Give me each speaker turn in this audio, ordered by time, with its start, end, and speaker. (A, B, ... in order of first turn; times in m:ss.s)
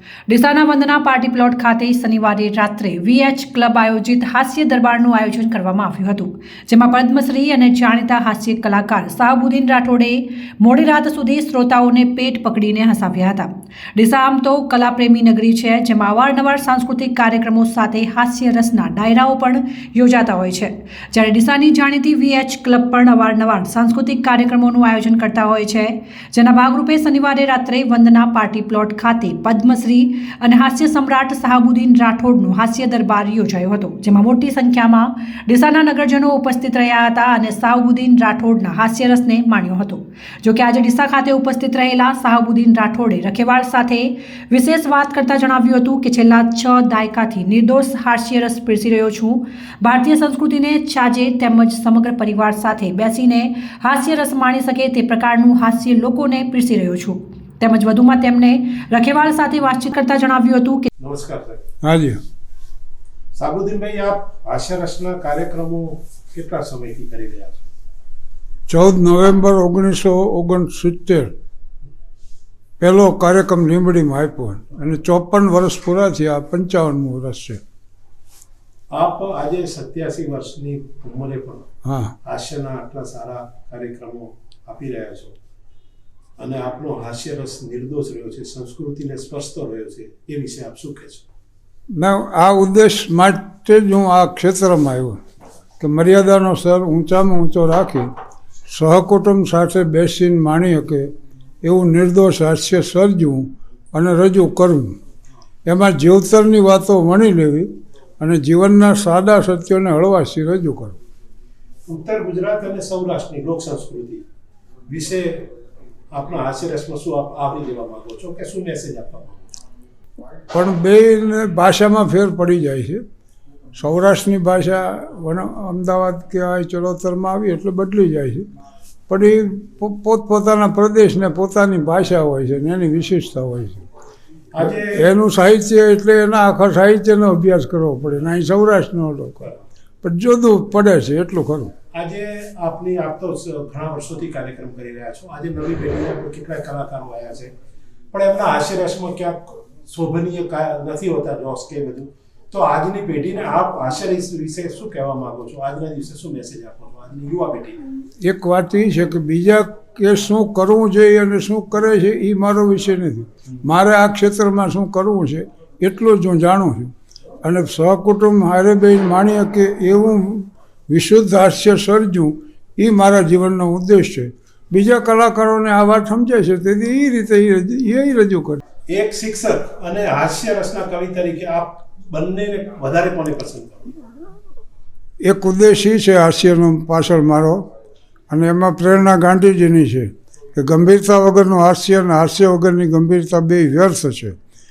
0:00.3-1:00.9 A
1:01.0-1:01.6 B
1:01.8-1:02.2 C
1:03.4-1:07.6 B
1:08.7-1:11.3 C
1:12.8-1:17.6 C
1:18.9-1:21.7 B
1:21.8-1:22.2 C
1:22.2-1:25.3 B
1:26.4-1:31.2 B
1:31.9-1:35.2 C
1:35.8-1:38.1 C
1:38.7-1:41.1 C
1:41.6-1:45.0 C
1:45.6-1:51.0 C
1:51.9-1:54.2 B
1:54.9-1:55.5 B
1:56.1-1:59.5 B
2:00.5-2:03.0 C
2:03.7-2:08.4 C
2:09.1-2:13.8 C
2:14.5-2:15.1 B
2:14.8-2:19.4 C
2:20.0-2:21.7 C
2:21.9-2:27.5 B
2:28.1-2:37.8 B
2:38.2-2:58.6 C
2:58.9-3:03.9 B
3:05.2-3:07.6 C
3:08.3-3:14.4 C